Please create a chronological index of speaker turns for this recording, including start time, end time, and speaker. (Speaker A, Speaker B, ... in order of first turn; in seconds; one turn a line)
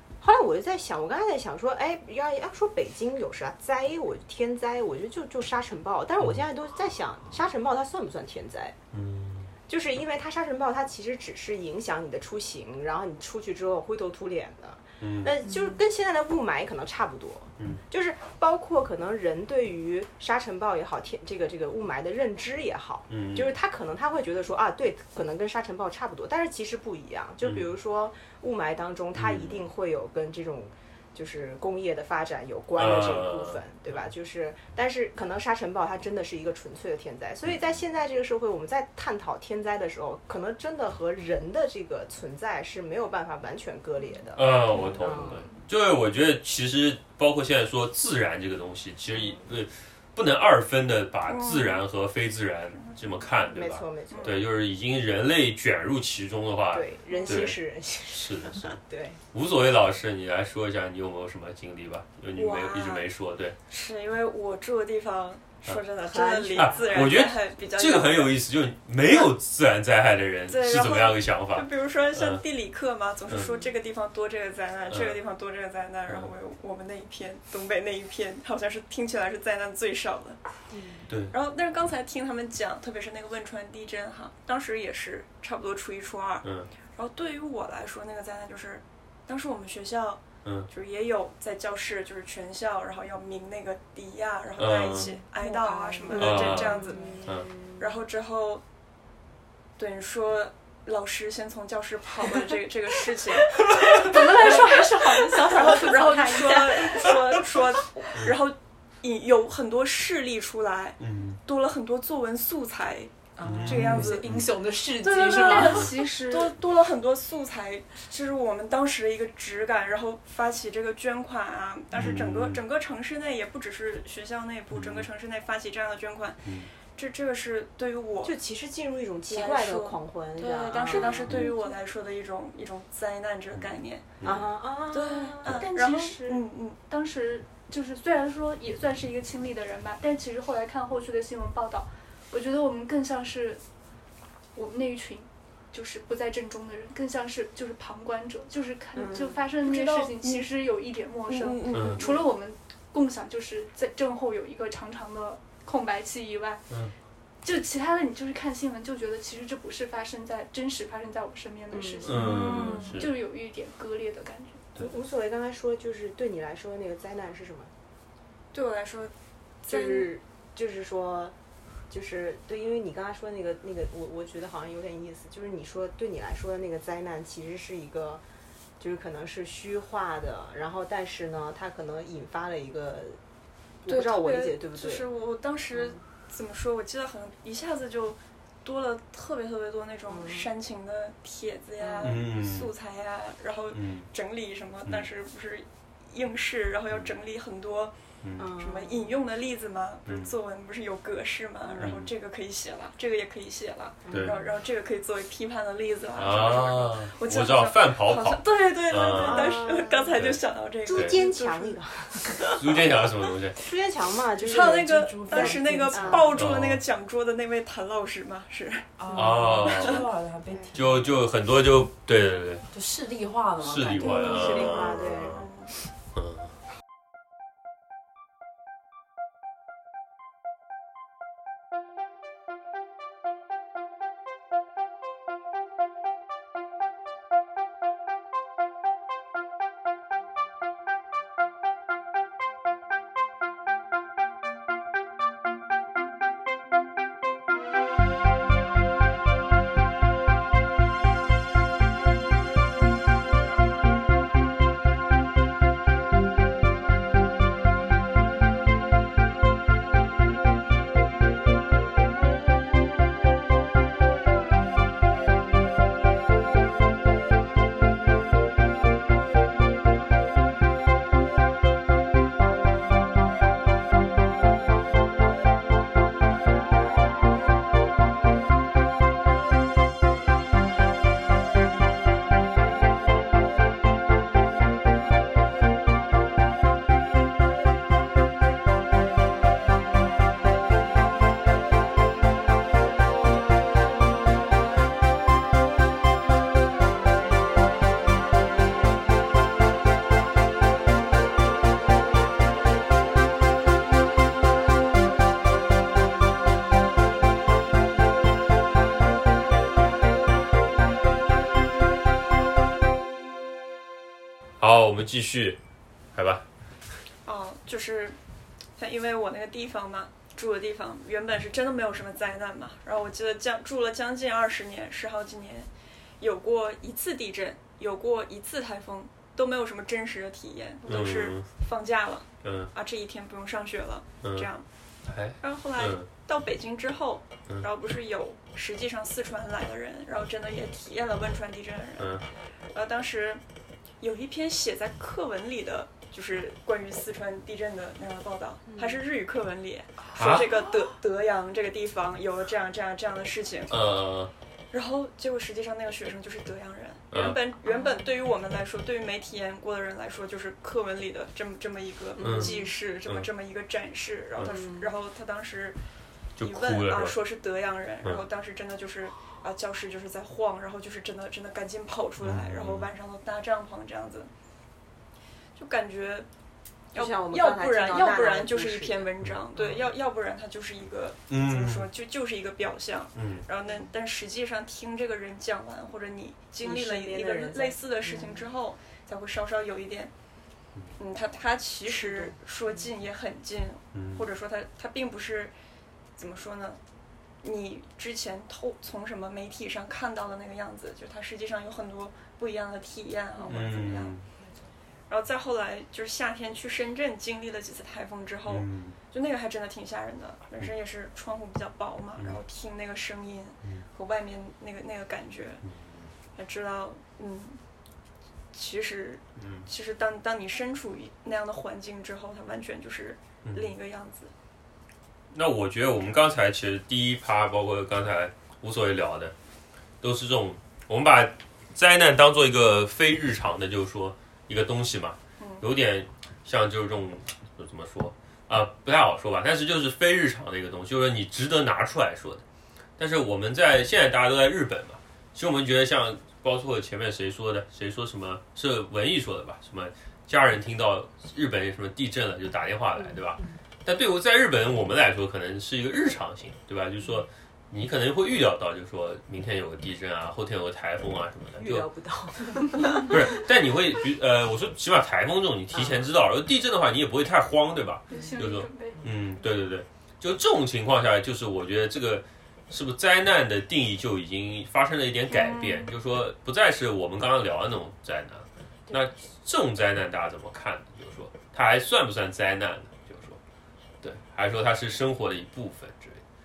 Speaker A: 0.2-8.8
Speaker B: 8.9-9.5
Speaker A: 9.7-45.5
Speaker B: 15.0-15.3
Speaker B: 23.1-23.5
Speaker B: 29.1-29.6
Speaker B: 32.8-33.6
Speaker B: 44.3-57.6
Speaker C: 51.3-51.8
Speaker A: 53.5-54.4
Speaker C: 54.1-54.4
Speaker A: 56.7-59.2
Speaker C: 57.1-57.5
Speaker B: 58.1-58.8
Speaker B: 59.3-63.6
Speaker C: 62.3-63.0
Speaker C: 63.7-68.4
Speaker A: 66.0-67.2
Speaker B: 66.5-72.4
Speaker C: 70.5-80.4
Speaker B: 74.9-75.2
Speaker A: 80.7-81.1
Speaker C: 81.3-97.2
Speaker B: 86.4-86.7
Speaker B: 94.6-95.1
Speaker D: 95.4-97.2
Speaker A: 96.1-97.7
Speaker B: 96.2-96.7
Speaker C: 97.8-98.6
Speaker C: 99.8-114.3
Speaker E: 103.7-107.2
Speaker B: 111.0-111.4
Speaker D: 113.4-115.9
Speaker B: 113.4-114.5
Speaker E: 115.0-116.5
Speaker C: 115.5-128.3
Speaker B: 121.9-122.6
Speaker B: 124.7-125.0
Speaker B: 126.4-126.7
Speaker A: 128.2-131.5
Speaker C: 129.3-134.4
Speaker B: 133.5-134.5
Speaker A: 134.2-135.6
Speaker C: 134.9-136.8
Speaker E: 135.4-143.6
Speaker E: 144.5-156.7
Speaker C: 149.0-150.5
Speaker C: 151.2-152.3
Speaker B: 151.7-152.0
Speaker E: 157.4-164.6
Speaker A: 161.7-162.8
Speaker B: 162.0-163.1
Speaker C: 162.2-163.0
Speaker A: 164.8-167.7
Speaker C: 168.5-170.1
Speaker A: 169.7-171.3
Speaker A: 171.9-178.2
Speaker A: 178.8-183.2
Speaker A: 183.8-185.1
Speaker C: 183.8-197.9
Speaker A: 185.7-186.0
Speaker A: 190.1-190.5
Speaker A: 191.8-192.2
Speaker B: 192.0-192.7
Speaker B: 193.7-194.1
Speaker B: 198.2-198.5
Speaker A: 198.4-199.2
Speaker C: 198.5-212.3
Speaker B: 200.1-200.3
Speaker B: 201.8-202.1
Speaker A: 204.0-204.4
Speaker B: 204.1-204.4
Speaker B: 206.2-209.6
Speaker A: 209.1-210.2
Speaker A: 210.8-212.9
Speaker B: 210.9-211.2
Speaker B: 212.5-213.6
Speaker A: 213.5-216.5
Speaker D: 214.4-216.3
Speaker C: 214.4-220.1
Speaker B: 216.3-216.8
Speaker D: 219.0-221.1
Speaker B: 219.1-220.0
Speaker A: 220.4-220.7
Speaker B: 220.7-222.7
Speaker D: 222.7-224.8
Speaker B: 223.6-225.4
Speaker A: 224.0-225.4
Speaker C: 224.0-225.7
Speaker B: 226.1-226.5
Speaker B: 314.6-315.6
Speaker B: 316.1-316.4
Speaker C: 317.2-318.2
Speaker C: 318.8-334.6
Speaker B: 330.8-331.5
Speaker B: 332.4-332.7
Speaker B: 334.2-334.5
Speaker B: 335.1-336.1
Speaker C: 335.4-342.2
Speaker B: 342.0-342.2
Speaker C: 342.7-343.4
Speaker C: 344.0-353.8
Speaker A: 348.7-349.0
Speaker B: 350.1-350.4
Speaker B: 353.7-354.3
Speaker C: 354.7-365.8
Speaker B: 357.1-357.4
Speaker A: 362.2-362.7
Speaker B: 362.2-363.2
Speaker A: 364.4-364.9
Speaker B: 366.4-367.1
Speaker C: 366.4-374.3
Speaker B: 372.2-372.9
Speaker C: 375.5-376.3
Speaker C: 376.9-390.1
Speaker A: 376.9-379.9
Speaker B: 381.3-381.9
Speaker B: 383.1-383.4
Speaker A: 386.6-388.5
Speaker C: 391.0-395.5
Speaker A: 391.8-392.4
Speaker B: 393.9-394.2
Speaker C: 396.1-396.8
Speaker C: 397.4-404.2
Speaker B: 403.4-404.2
Speaker C: 405.1-415.6
Speaker B: 408.5-409.0
Speaker B: 415.6-416.1
Speaker C: 416.4-417.6
Speaker C: 418.5-424.3
Speaker B: 419.4-419.7
Speaker B: 423.4-423.7
Speaker B: 425.3-429.3
Speaker B: 430.0-442.4
Speaker C: 435.4-435.6
Speaker B: 443.0-461.9
Speaker A: 453.0-453.4
Speaker A: 461.6-463.4
Speaker B: 462.8-483.4
Speaker A: 465.7-466.1
Speaker E: 468.1-469.0
Speaker C: 475.3-475.9
Speaker B: 484.0-486.2